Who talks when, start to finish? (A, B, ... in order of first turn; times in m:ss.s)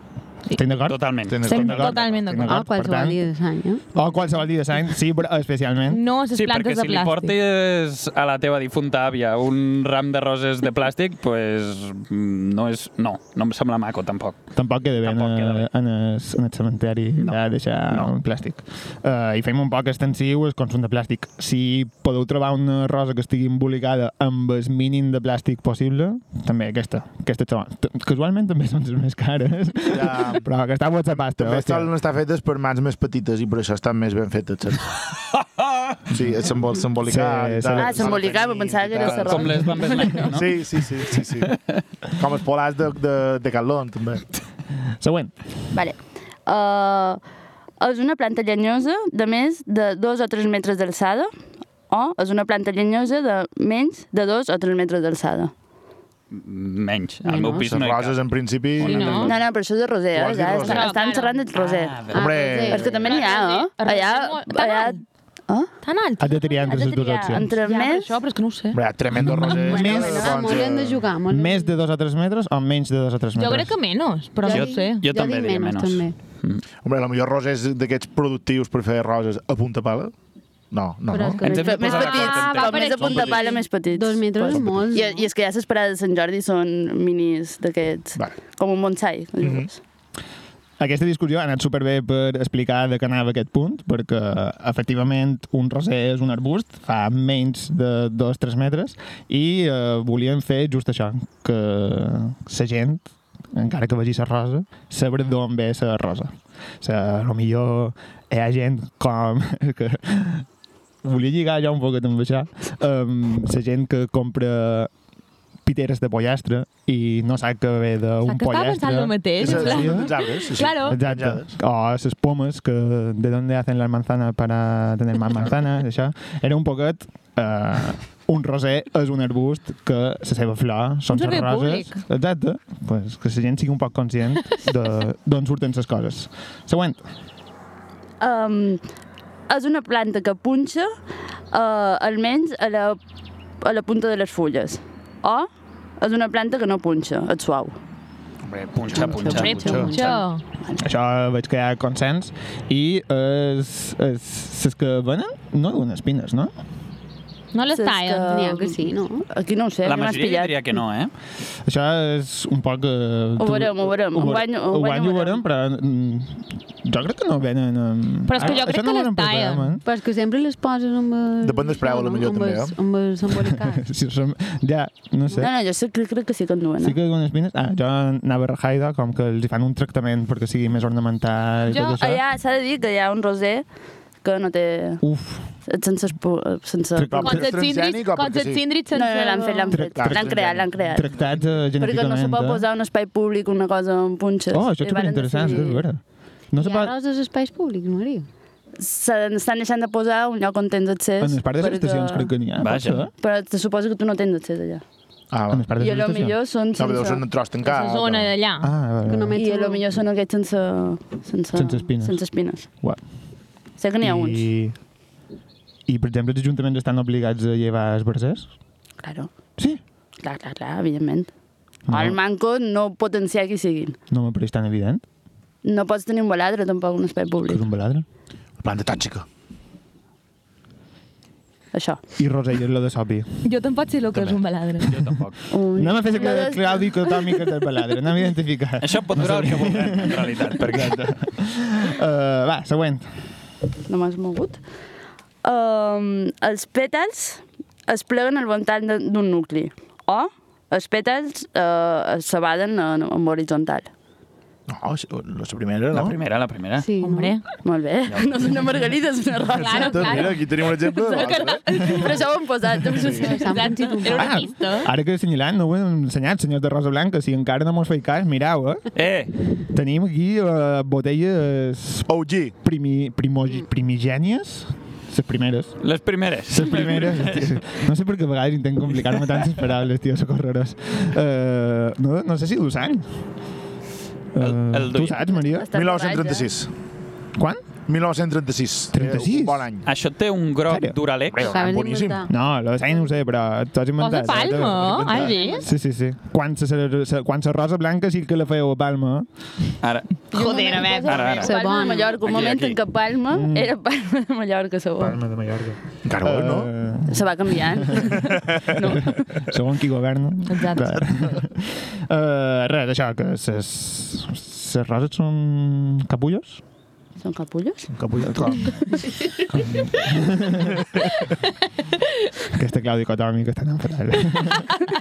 0:00.5-0:03.2 A
0:00.9-0:02.2 B
0:01.3-0:01.8 C
0:01.5-0:02.7 D
0:02.5-0:03.8 E
0:03.9-0:06.0 A
0:05.9-0:07.4 D
0:06.3-0:14.4 B
0:14.6-0:31.9 A
0:15.0-0:15.7 B
0:29.9-0:30.5 C
0:31.2-0:34.9 C
0:35.3-0:36.0 B
0:36.1-0:39.7 C
0:37.0-0:38.1 A
0:37.7-0:40.3 F
0:39.0-0:41.8 B
0:40.3-0:41.5 C
0:42.2-0:44.3 C
0:44.9-0:45.3 A
0:45.7-0:47.2 F
0:47.8-0:51.3 F
0:51.9-0:55.5 F
0:56.3-0:58.2 B
0:57.4-0:59.4 C
0:58.8-0:59.3 B
0:58.8-0:59.3 D
0:59.2-1:02.1 F
1:00.1-1:00.9 C
1:00.6-1:01.4 D
1:01.5-1:02.3 B
1:02.1-1:02.9 E
1:02.1-1:03.2 C
1:02.7-1:05.7 F
1:02.7-1:05.0 D
1:05.8-1:06.9 D
1:06.2-1:07.5 A
1:06.6-1:08.1 F
1:07.6-1:08.8 D
1:08.7-1:11.1 C
1:09.2-1:10.3 A
1:09.6-1:10.7 F
1:09.8-1:11.7 E
1:11.3-1:13.8 A
1:13.4-1:15.0 D
1:14.4-1:16.2 E
1:14.5-1:16.6 B
1:16.8-1:20.1 C
1:20.7-1:21.6 C
1:21.1-1:22.4 E
1:21.4-1:23.4 B
1:21.4-1:29.8 F
1:21.8-1:23.6 D
1:23.9-1:25.3 E
1:29.4-1:29.7 C
1:30.8-1:50.5 A
1:51.0-1:54.9 A
1:55.6-2:00.2 A
1:58.2-2:01.0 D
1:59.4-2:01.6 C
2:00.8-2:17.1 A
2:11.1-2:12.0 D
2:18.2-2:18.8 F
2:19.5-2:20.9 F
2:21.5-2:23.0 F
2:23.6-2:27.8 F
2:28.5-2:30.0 C
2:28.7-2:30.2 B
2:29.0-2:30.2 E
2:29.3-2:30.4 D
2:30.8-2:36.5 A
2:37.5-2:38.4 D
2:37.7-2:40.6 F
2:38.3-2:39.3 E
2:39.8-2:41.1 B
2:41.6-2:49.8 A
2:43.4-2:45.4 F
2:48.3-2:49.7 D
2:49.8-2:53.8 E
2:51.4-2:52.8 C
2:53.4-2:55.5 A
2:55.4-2:57.0 F
2:56.8-3:02.2 A
3:01.7-3:02.0 D
3:01.9-3:03.6 F
3:04.2-3:05.0 F
3:05.0-3:05.5 A
3:05.7-3:07.4 F
3:07.0-3:07.5 A
3:07.1-3:08.6 C
3:07.2-3:09.8 D
3:08.9-3:11.1 F
3:09.7-3:12.6 A
3:10.0-3:11.0 C
3:11.7-3:15.8 F
3:14.5-3:16.9 A
3:16.6-3:18.3 E
3:18.8-3:22.3 F
3:21.2-3:23.1 A
3:22.6-3:23.1 B
3:23.2-3:24.8 F
3:25.3-3:25.7 C
3:25.5-3:26.4 A
3:25.7-3:27.3 F
3:26.8-3:28.4 C
3:27.6-3:28.7 D
3:28.6-3:29.4 A
3:29.0-3:29.9 E
3:29.4-3:32.7 F
3:31.5-3:33.0 A
3:33.8-3:34.5 F
3:34.0-3:34.8 A
3:35.9-3:38.5 A
3:39.0-3:39.3 F
3:40.2-3:41.3 F
3:41.9-3:42.2 A
3:41.9-3:44.0 F
3:44.1-3:45.0 A
3:45.6-3:47.7 F
3:47.5-3:48.1 A
3:48.6-3:49.3 C
3:51.7-3:52.0 F
3:52.2-3:53.4 A
3:53.4-3:55.0 D
3:54.9-3:55.4 B
3:55.5-3:57.1 F
3:55.8-4:03.1 A
3:58.8-4:01.0 B
4:03.9-4:04.6 F
4:05.4-4:13.9 F
4:14.7-4:16.2 C
4:15.9-4:16.9 B
4:16.8-4:17.4 E
4:17.0-4:17.4 D
4:17.6-4:20.4 F
4:18.1-4:18.6 B
4:19.5-4:22.3 D
4:19.7-4:21.6 C
4:21.0-4:23.6 F
4:22.9-4:24.9 D
4:23.2-4:24.5 E
4:24.2-4:28.8 A
4:29.0-4:29.3 B
4:29.7-4:35.8 A
4:32.1-4:32.5 C
4:35.8-4:37.6 B
4:36.5-4:43.2 A
4:44.3-4:45.7 A
4:44.4-4:45.2 B
4:45.5-4:46.5 F
4:45.7-4:46.7 C
4:47.4-4:47.7 A
4:47.9-4:49.9 C
4:48.9-4:49.7 A
4:49.8-4:51.5 B
4:50.7-4:51.0 A
4:51.3-4:52.3 C
4:51.5-4:52.3 E
4:52.3-4:59.3 A
4:54.0-4:55.7 D
4:54.8-4:55.4 C
4:59.8-5:00.5 B
5:00.3-5:01.4 D
5:00.3-5:05.2 F
5:01.0-5:01.6 B
5:01.4-5:02.2 E
5:02.2-5:02.8 B
5:03.3-5:03.7 A
5:05.0-5:08.2 A
5:06.0-5:06.7 C
5:07.1-5:09.4 F
5:09.5-5:16.6 A
5:10.5-5:11.0 D
5:17.2-5:17.9 F
5:17.9-5:18.8 C
5:18.2-5:18.7 A
5:19.5-5:21.0 A
5:22.5-5:24.8 A